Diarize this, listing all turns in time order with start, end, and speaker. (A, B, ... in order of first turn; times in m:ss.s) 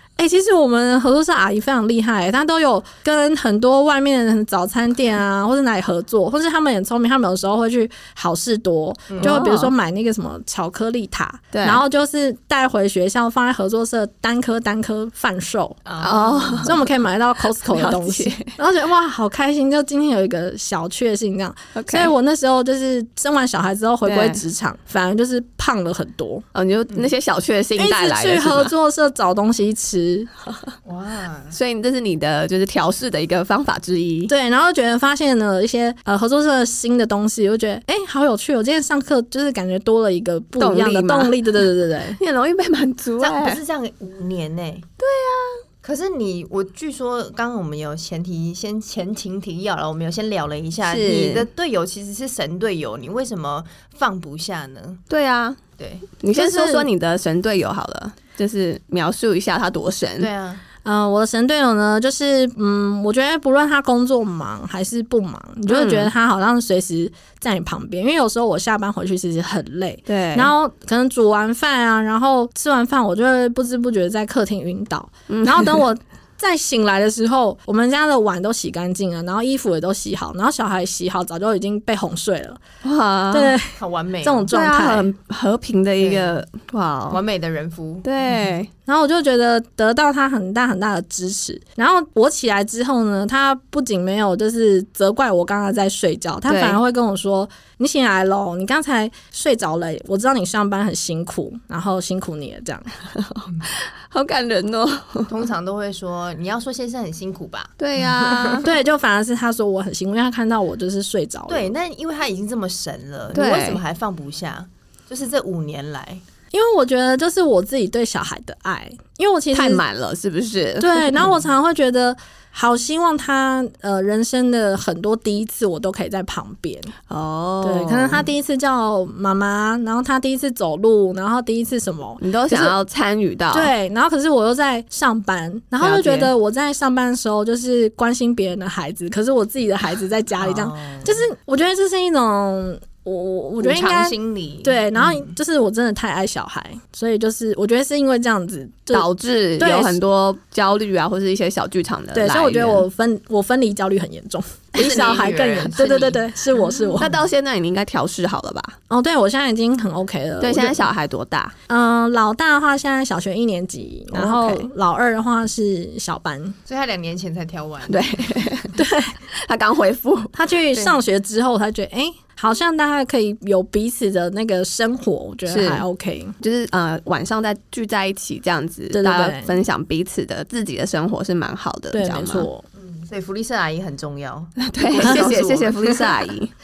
0:00.2-0:15.9 A
0:09.1-0:09.4 B
0:09.2-0:09.7 C
0:11.5-0:11.8 C
0:15.9-0:16.8 B
0:16.0-0:16.8 C
0:16.6-0:26.4 A
0:17.5-0:18.5 C
0:21.8-0:22.1 C
0:24.0-0:24.4 C
0:26.5-0:28.7 C
0:27.8-0:30.3 A
0:30.8-0:31.6 B
0:31.5-0:34.3 C
0:34.3-0:42.2 A
0:40.6-0:41.4 C
0:42.2-0:43.6 C
0:43.2-0:44.9 B
0:45.0-0:45.6 C
0:45.8-0:55.0 B
0:50.8-0:51.5 C
0:55.1-0:55.6 C
0:55.8-0:56.8 B
0:56.2-1:00.3 C
1:00.2-1:00.6 B
1:00.8-1:22.6 A
1:05.7-1:06.1 C
1:10.1-1:10.5 C
1:15.3-1:15.8 C
1:22.8-1:23.6 C
1:23.3-1:25.1 A
1:23.8-1:24.5 B
1:24.5-1:27.2 C
1:26.0-1:26.4 B
1:27.1-1:28.6 B
1:28.0-1:28.7 C
1:28.9-1:42.9 A
1:36.5-1:36.8 C
1:43.2-1:45.3 C
1:45.3-1:48.6 B
1:47.8-1:48.7 C
1:48.6-1:51.7 A
1:51.5-1:56.2 B
1:53.3-1:53.8 C
1:56.5-1:59.8 A
1:59.5-2:01.3 C
2:00.8-2:06.9 A
2:07.1-2:08.3 C
2:07.6-2:12.8 A
2:12.2-2:13.7 C
2:13.5-2:30.0 A
2:15.8-2:16.3 C
2:20.4-2:21.2 B
2:23.6-2:25.3 B
2:28.9-2:32.9 C
2:32.1-2:37.2 A
2:34.8-2:36.2 B
2:37.0-2:38.8 C
2:38.9-2:40.9 A
2:40.4-2:41.5 C
2:41.7-2:46.6 A
2:44.2-2:44.6 C
2:46.7-2:48.3 B
2:47.9-2:50.9 C
2:48.8-2:49.2 A
2:50.3-2:56.4 A
2:55.5-2:55.8 C
2:56.4-3:02.5 C
2:58.9-2:59.6 A
3:01.9-3:02.6 A
3:02.8-3:06.2 B
3:04.6-3:06.5 C
3:05.0-3:05.3 A